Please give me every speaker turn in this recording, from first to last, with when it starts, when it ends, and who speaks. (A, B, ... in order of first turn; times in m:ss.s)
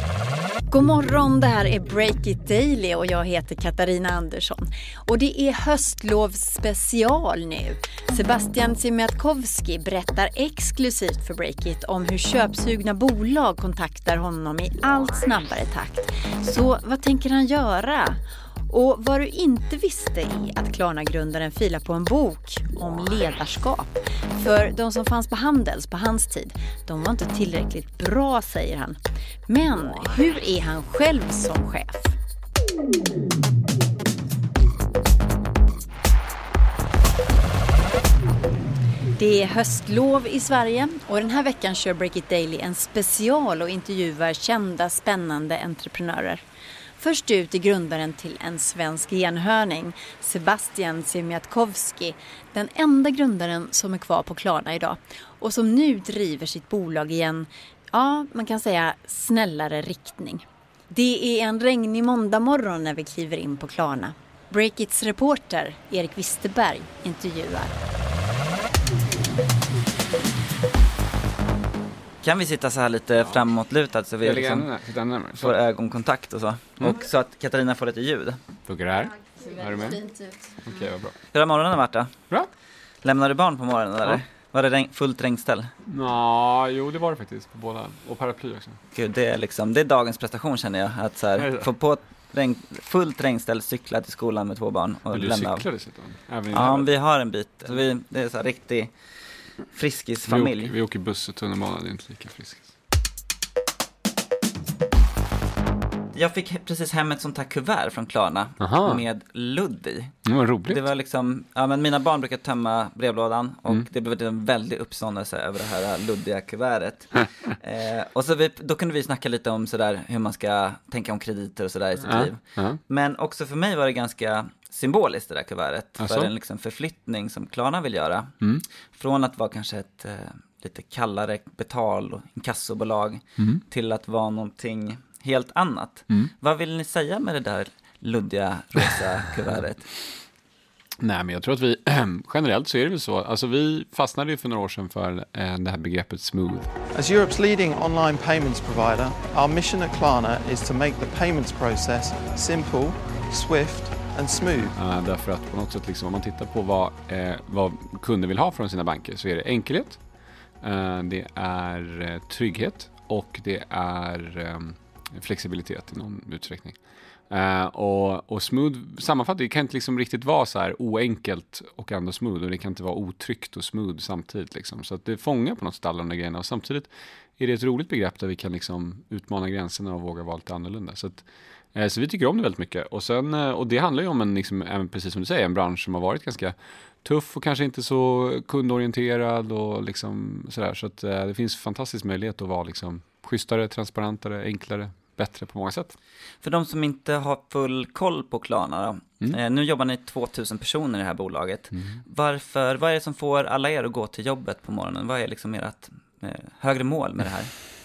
0:00.7-0:32.2 A
0:39.2-0:46.4 A
0:47.0-1:07.8 A
1:12.2-1:14.7 B
1:14.2-1:15.6 C
1:15.4-1:18.4 B
1:18.7-1:20.0 C
1:20.6-1:21.2 C
1:21.3-1:22.1 B
1:23.0-1:25.7 B
1:25.9-1:28.8 C
1:28.9-1:35.6 B
1:31.4-1:31.7 C
1:35.1-1:36.9 C
1:36.5-1:38.9 B
1:39.7-1:40.7 B
1:40.3-1:42.7 C
1:46.1-2:08.4 B
1:48.6-1:49.0 C
1:50.3-1:50.9 C
2:02.0-2:02.8 C
2:06.0-2:06.3 C
2:09.0-2:19.9 B
2:21.0-2:26.7 C
2:26.9-2:34.7 D
2:34.8-2:40.0 C
2:40.6-2:46.8 C
2:47.3-3:16.0 C
3:16.4-3:27.5 B